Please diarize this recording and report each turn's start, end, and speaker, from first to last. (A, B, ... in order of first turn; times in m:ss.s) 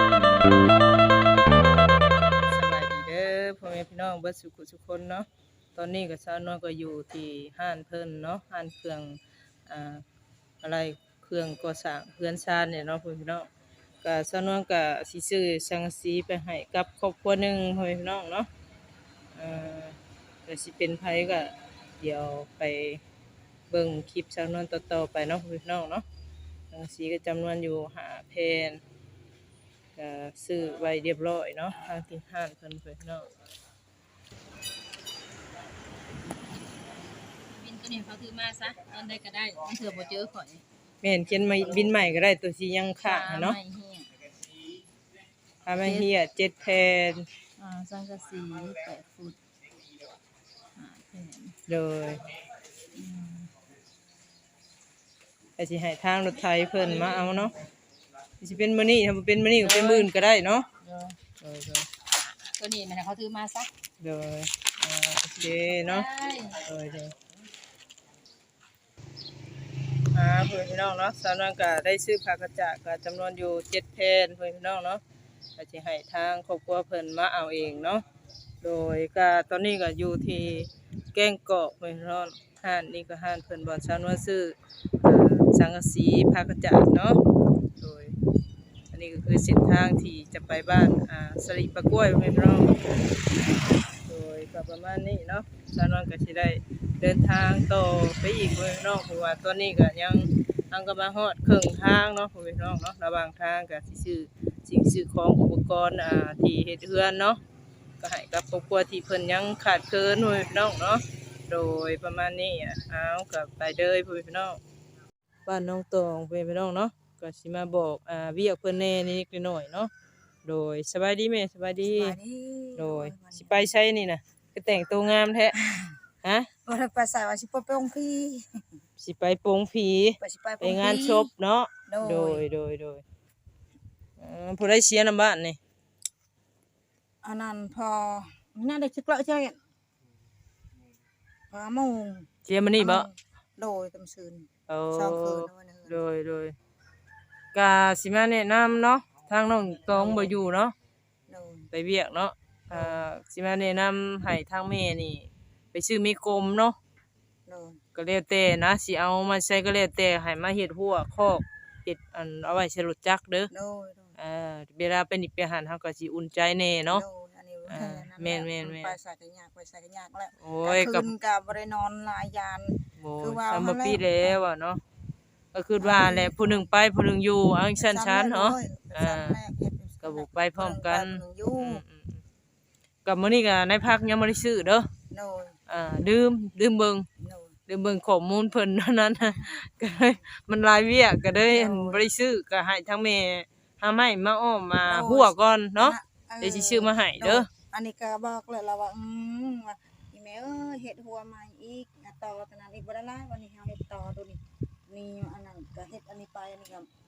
0:02.4-0:10.0 A
0:10.6-0:13.5 A
0:14.0-0:18.5 A
0:19.3-0:23.0 A
0:23.7-0:26.0 A
0:26.7-0:28.8 A
0:30.0-0:33.3 A
0:37.5-0:40.6 B
0:41.0-0:43.6 A
0:43.0-0:44.1 B
0:45.6-0:47.3 A
0:47.6-0:49.4 B
0:50.8-0:51.5 B
0:51.7-0:52.2 A
0:52.9-0:53.5 B
0:55.6-0:57.6 A
0:58.4-1:00.7 A
0:59.6-1:00.1 B
1:00.8-1:01.2 B
1:01.4-1:01.9 A
1:02.6-1:03.7 B
1:04.0-1:07.1 A
1:05.5-1:06.6 B
1:10.1-1:15.0 A
1:15.6-1:18.0 A
1:18.6-1:27.2 A
1:27.8-1:28.1 A
1:28.9-1:32.9 A
1:34.0-1:47.4 A
1:48.0-1:54.6 A
1:55.4-1:59.9 A
2:00.4-2:02.2 A
2:01.8-2:03.7 C
2:02.8-2:05.6 A
2:06.2-2:06.5 A
2:06.6-2:08.6 C
2:09.0-2:13.0 A
2:10.2-2:11.3 C
2:11.9-2:12.4 C
2:14.2-2:15.6 A
2:17.2-2:19.6 C
2:21.5-2:26.0 C
2:22.4-2:23.1 A
2:24.7-2:26.5 A
2:27.5-2:30.7 A
2:29.9-2:30.3 C
2:31.3-2:31.7 C
2:31.7-2:36.8 A
2:32.7-2:33.0 C
2:37.4-2:37.8 C
2:37.9-2:43.5 A
2:43.5-2:44.1 C
2:44.2-2:47.0 A
2:46.9-2:54.1 C
2:47.7-2:49.0 A
2:50.4-2:51.1 A
2:53.0-2:54.8 A
2:55.5-2:59.4 A
2:55.8-2:56.7 C
2:57.8-3:01.8 C
3:00.0-3:02.2 A
3:03.0-3:04.9 A
3:05.1-3:05.6 C
3:05.7-3:07.1 A
3:07.2-3:07.6 C
3:07.7-3:17.5 A
3:09.3-3:09.5 C
3:11.5-3:12.0 C
3:14.8-3:26.9 C